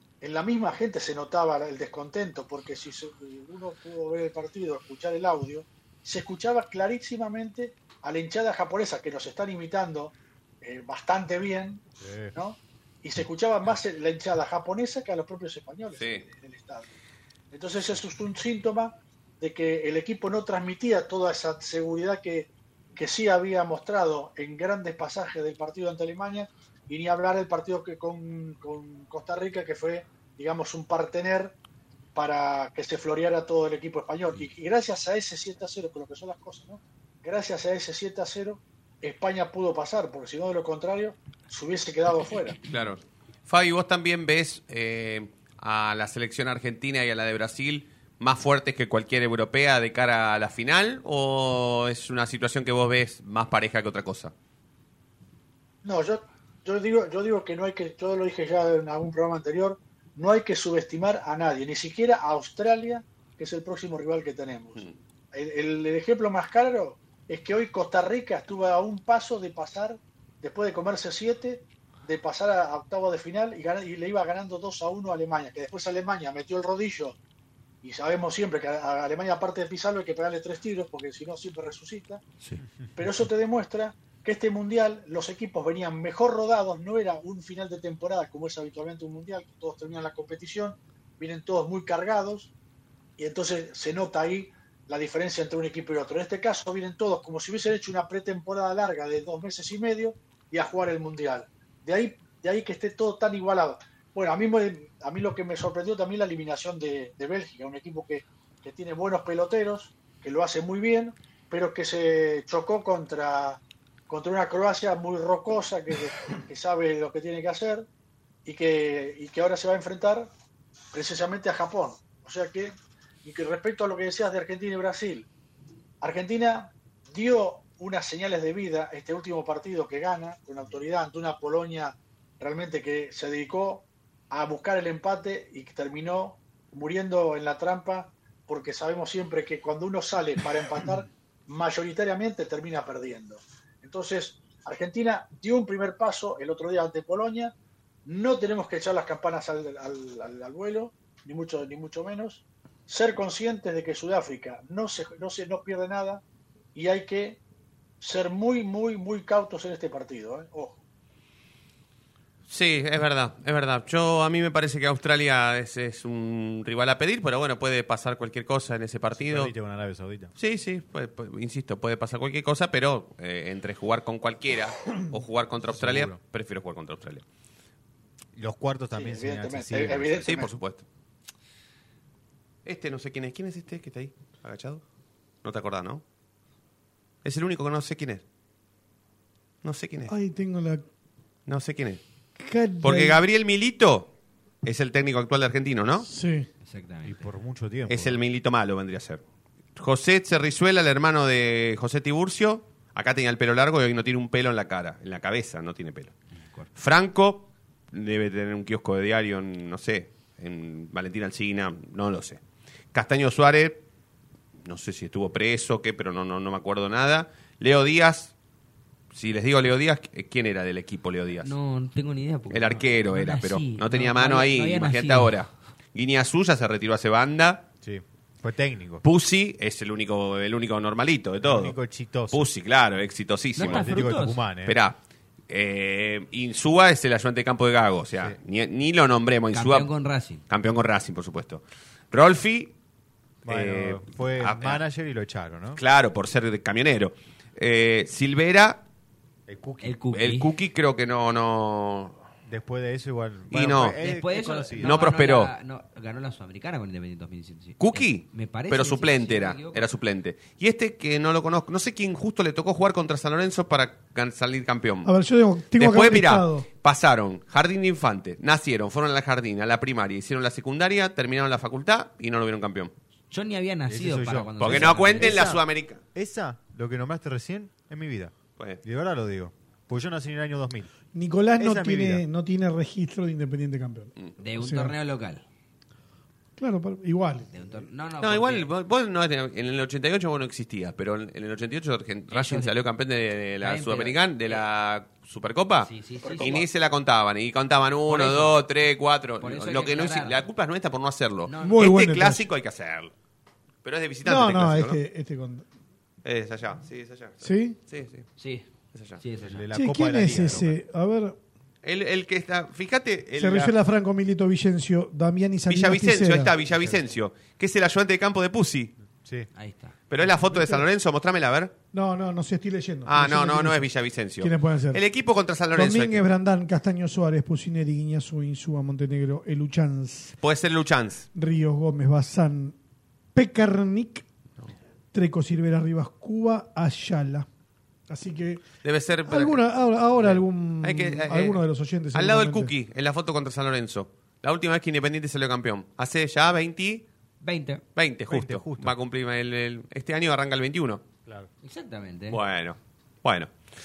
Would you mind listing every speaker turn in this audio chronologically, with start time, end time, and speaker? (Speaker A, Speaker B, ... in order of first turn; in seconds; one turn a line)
Speaker A: 0.2-16.9
Speaker B: 12.0-12.3
Speaker C: 15.9-16.2
Speaker A: 17.5-31.6
Speaker A: 32.1-42.6
Speaker C: 42.7-54.3
Speaker A: 55.8-77.2
Speaker A: 77.8-82.2
Speaker A: 83.0-92.5
Speaker A: 93.2-117.8
Speaker A: 118.4-120.3
Speaker A: 120.9-122.7
Speaker A: 123.2-125.3
Speaker A: 126.0-147.5
Speaker A: 148.1-156.2
Speaker A: 156.7-157.4
Speaker A: 158.0-160.8
Speaker C: 162.5-169.5
Speaker B: 169.1-170.3
Speaker C: 170.3-177.2
Speaker B: 175.6-176.2
Speaker B: 178.3-180.3
Speaker A: 178.9-180.5
Speaker C: 180.2-180.8
Speaker C: 182.6-184.8
Speaker C: 185.4-186.0
Speaker C: 187.2-188.2
Speaker C: 189.6-190.1
Speaker D: 190.1-190.8
Speaker C: 191.5-192.0
Speaker D: 192.4-193.2
Speaker C: 192.8-194.1
Speaker C: 194.6-196.1
Speaker D: 196.0-196.5
Speaker E: 196.6-197.3
Speaker B: 197.0-198.2
Speaker C: 197.9-199.2
Speaker C: 199.8-206.1
Speaker C: 206.7-212.4
Speaker C: 212.9-213.8
Speaker C: 214.6-218.3
Speaker C: 219.1-221.5
Speaker E: 221.4-225.3
Speaker C: 222.5-227.6
Speaker B: 227.8-229.0
Speaker C: 229.0-231.8
Speaker B: 231.4-232.5
Speaker C: 232.3-234.1
Speaker E: 233.6-234.4
Speaker B: 233.6-234.8
Speaker C: 234.7-235.0
Speaker C: 235.5-239.9
Speaker E: 239.5-240.4
Speaker C: 240.5-242.7
Speaker B: 243.4-245.8
Speaker C: 243.4-244.8
Speaker C: 245.8-248.8
Speaker B: 249.5-250.0
Speaker E: 249.8-250.5
Speaker C: 250.1-252.2
Speaker B: 252.4-255.0
Speaker C: 253.5-254.0
Speaker E: 254.0-259.9
Speaker C: 254.8-255.5
Speaker C: 257.8-265.1
Speaker D: 265.0-266.7
Speaker C: 265.8-272.9
Speaker E: 273.3-275.4
Speaker B: 273.9-275.6
Speaker C: 274.6-276.0
Speaker B: 276.1-280.9
Speaker D: 281.1-284.9
Speaker B: 281.6-282.2
Speaker E: 284.4-285.4
Speaker D: 286.6-287.6
Speaker E: 287.5-288.7
Speaker C: 288.2-303.1
Speaker E: 292.3-292.7
Speaker E: 293.6-294.6
Speaker E: 295.8-296.6
Speaker A: 296.2-296.6
Speaker E: 298.1-298.6
Speaker E: 299.4-300.4
Speaker E: 301.4-301.8
Speaker D: 301.6-302.4
Speaker C: 303.8-305.0
Speaker D: 304.2-305.6
Speaker C: 306.2-308.2
Speaker D: 307.4-307.8
Speaker E: 308.4-309.7
Speaker C: 308.9-309.2
Speaker B: 309.4-310.8
Speaker D: 309.7-311.4
Speaker C: 311.8-313.7
Speaker D: 313.4-316.5
Speaker C: 315.7-318.9
Speaker B: 316.7-317.1
Speaker E: 319.5-320.0
Speaker C: 320.1-321.7
Speaker D: 320.4-320.8
Speaker D: 321.9-323.9
Speaker C: 323.1-326.2
Speaker D: 324.4-325.0
Speaker D: 325.7-330.4
Speaker C: 330.4-331.2
Speaker D: 331.3-332.8
Speaker D: 333.3-334.2
Speaker D: 335.1-337.5
Speaker D: 338.1-338.6
Speaker C: 338.8-339.6
Speaker D: 339.2-342.7
Speaker C: 340.1-347.0
Speaker E: 347.4-347.8
Speaker C: 347.9-351.0
Speaker B: 348.3-348.9
Speaker E: 351.6-352.4
Speaker C: 352.3-353.5